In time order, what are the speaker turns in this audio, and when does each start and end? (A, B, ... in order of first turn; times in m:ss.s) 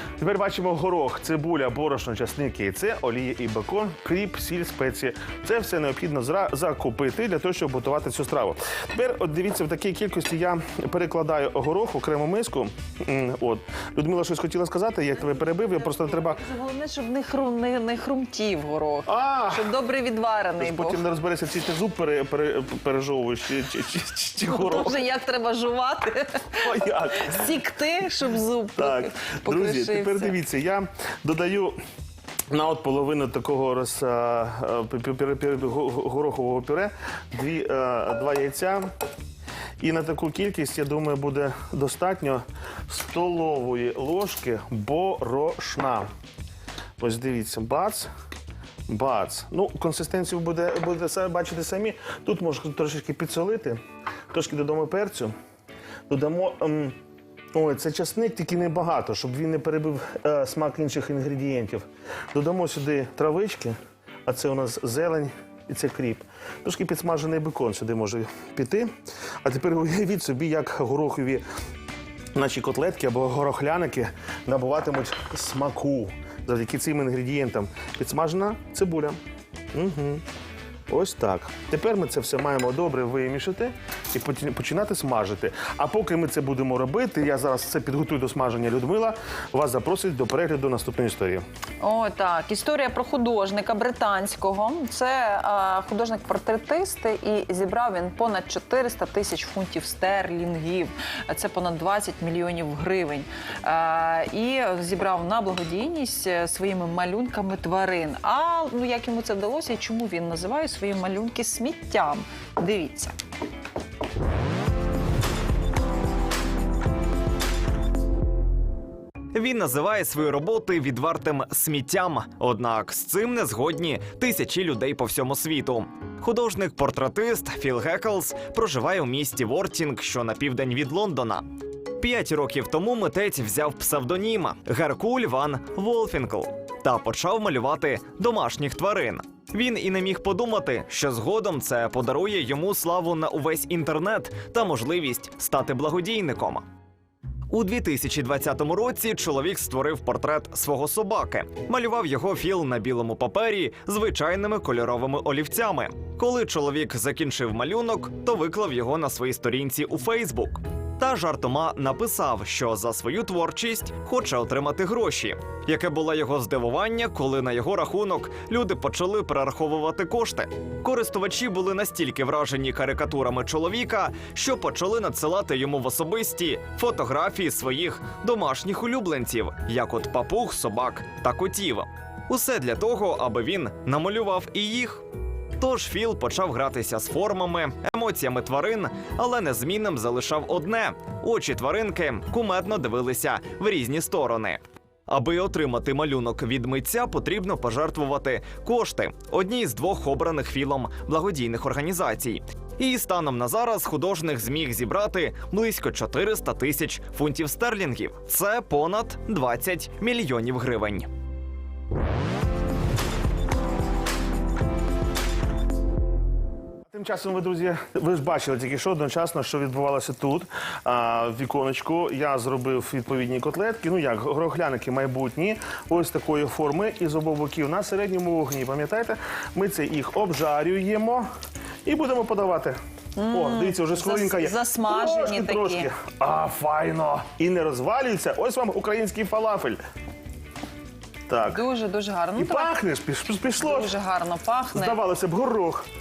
0:00.2-0:16.4 A
0:15.2-0:21.0 B
0:19.1-0:19.7 A
0:20.6-0:25.0 A
0:24.4-0:30.3 B
0:26.6-0:27.5 A
0:28.8-0:31.8 A
0:32.5-0:38.9 A
0:39.8-0:46.1 A
0:47.0-0:48.1 A
0:48.9-0:53.8 A
0:54.3-0:55.3 A
0:56.1-0:56.9 A
0:57.5-1:08.9 A
1:09.4-1:11.4 A
1:12.3-1:19.2 A
1:19.7-1:20.2 A
1:20.9-1:31.4 A
1:31.8-1:53.1 B
1:59.3-2:11.4 C
2:12.0-2:26.6 C
2:27.5-3:05.0 C
3:05.6-3:31.1 C
3:36.9-3:51.2 A
3:51.8-3:52.8 A
3:53.2-3:55.9 B
3:53.3-3:59.8 A
4:01.3-4:01.6 A
4:01.4-4:02.7 B
4:02.4-4:03.9 A
4:03.6-4:05.0 B
4:04.7-4:05.8 A